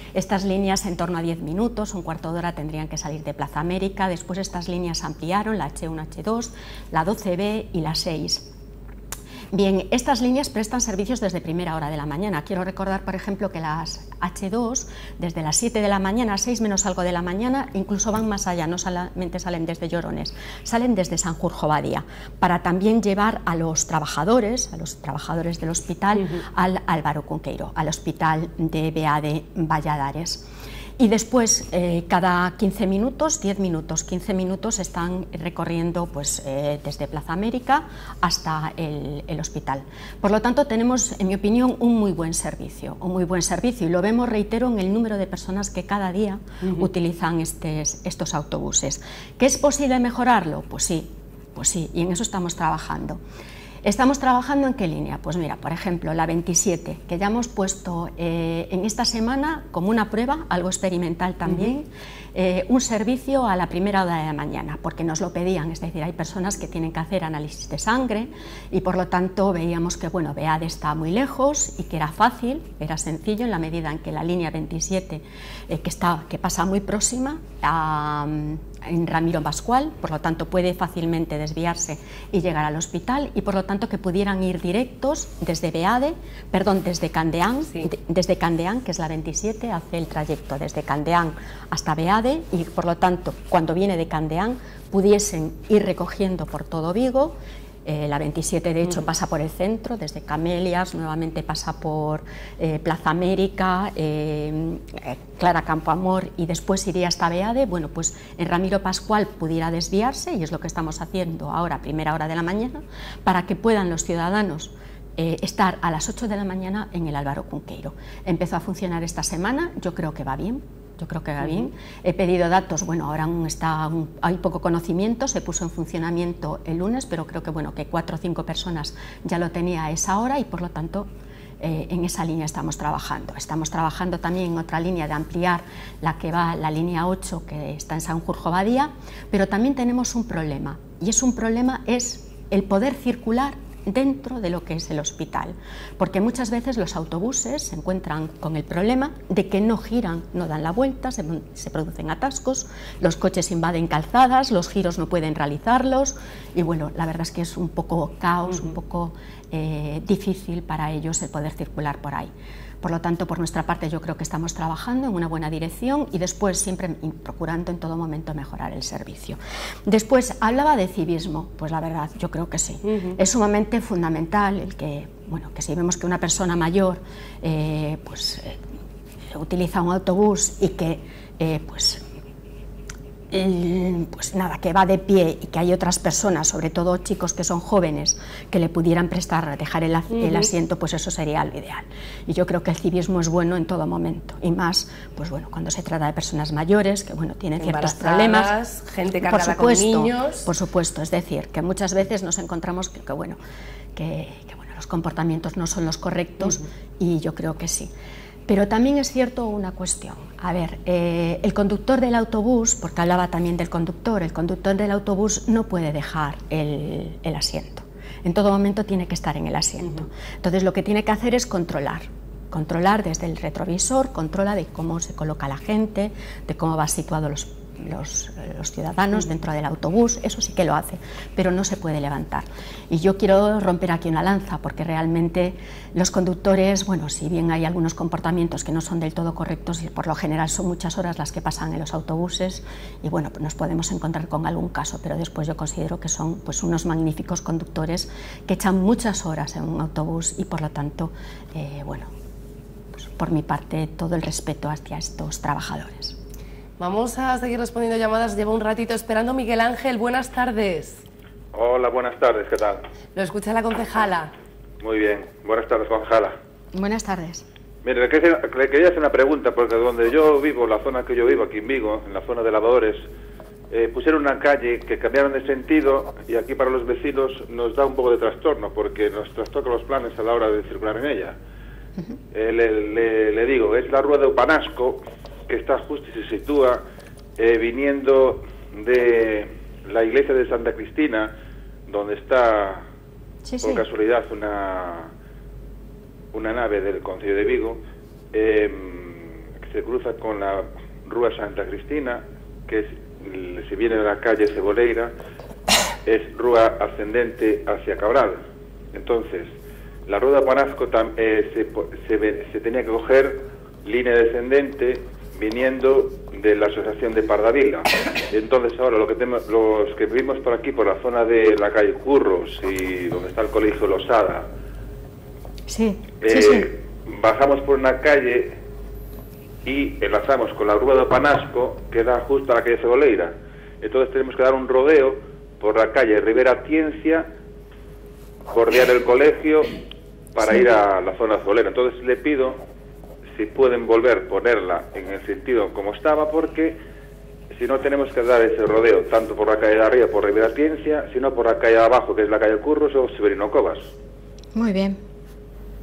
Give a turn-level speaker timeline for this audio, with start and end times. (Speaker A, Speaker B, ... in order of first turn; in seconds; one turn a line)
Speaker A: 0.1-8.5
Speaker A: 9.5-30.4
Speaker A: 31.0-53.2
Speaker A: 53.8-131.1
Speaker A: 131.6-162.3
Speaker A: 162.8-178.6
Speaker B: 172.9-173.2
Speaker A: 179.3-182.0
Speaker A: 183.3-198.5
Speaker B: 190.1-190.5
Speaker B: 197.6-200.5
Speaker A: 199.2-203.4
Speaker A: 203.9-207.9
Speaker A: 208.5-252.1
Speaker A: 252.9-256.2
Speaker B: 256.8-261.0
Speaker C: 261.5-262.8
Speaker B: 263.1-264.3
Speaker C: 264.8-266.4
Speaker A: 266.7-267.5
Speaker C: 267.8-273.1
Speaker C: 273.7-281.4
Speaker C: 282.3-286.8
Speaker C: 287.4-291.3
Speaker C: 291.9-292.8
Speaker A: 293.4-293.8
Speaker C: 293.6-295.1
Speaker C: 296.3-297.8
Speaker C: 298.3-305.1
Speaker C: 306.1-308.4
Speaker C: 308.9-309.5
Speaker C: 310.1-324.5
Speaker A: 325.7-326.7
Speaker C: 326.2-328.6
Speaker C: 329.6-337.3
Speaker C: 338.5-339.8
Speaker C: 340.4-342.6
Speaker C: 343.3-346.8
Speaker C: 347.5-353.9
Speaker A: 354.6-355.0